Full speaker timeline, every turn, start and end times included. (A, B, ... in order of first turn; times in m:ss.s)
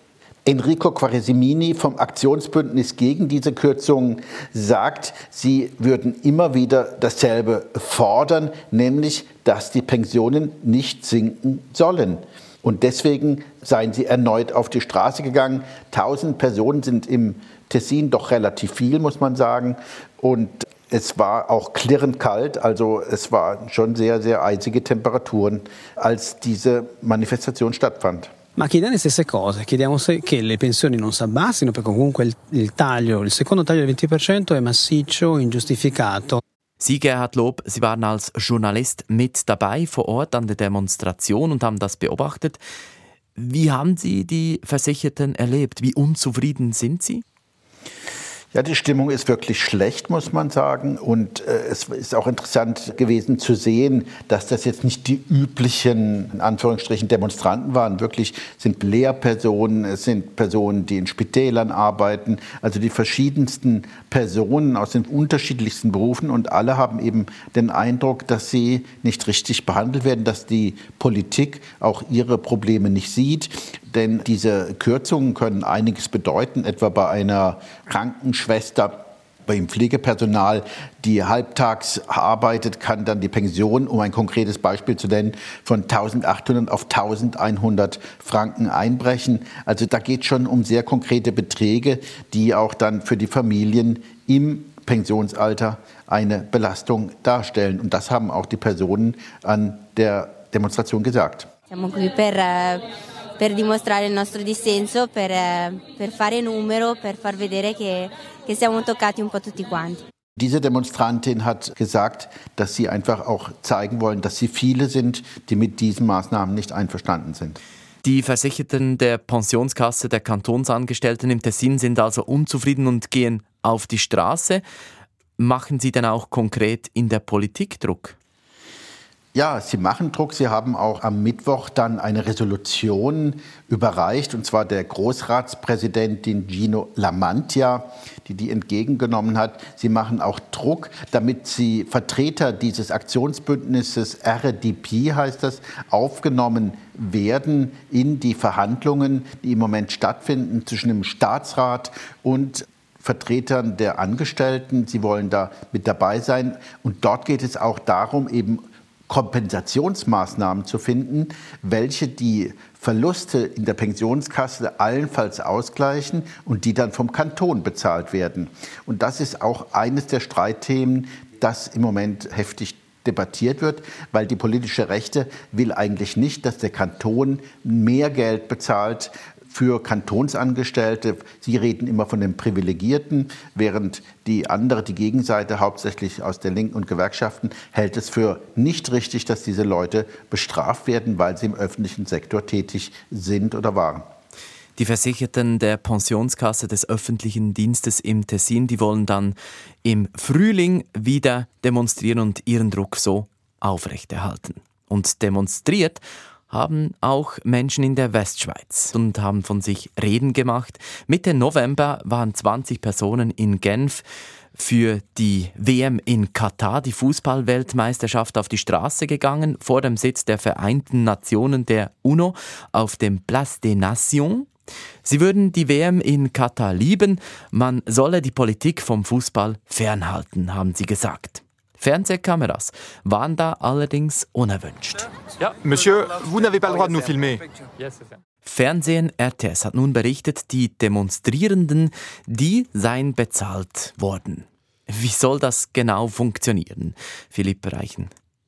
0:00.4-0:28.3 A
0:28.6-0:36.4 B
0:36.8-0:42.6 C
0:43.4-0:47.2 C
0:48.5-1:41.5 A
1:41.7-1:42.8 D
1:43.4-1:50.0 D
1:50.4-1:57.6 A
1:58.0-2:04.6 C
2:05.4-2:08.2 C
2:09.3-3:14.1 A
3:14.8-3:34.0 C
3:34.6-3:44.5 C
3:45.0-3:55.1 C
3:55.4-3:57.4 E
3:58.4-4:08.1 C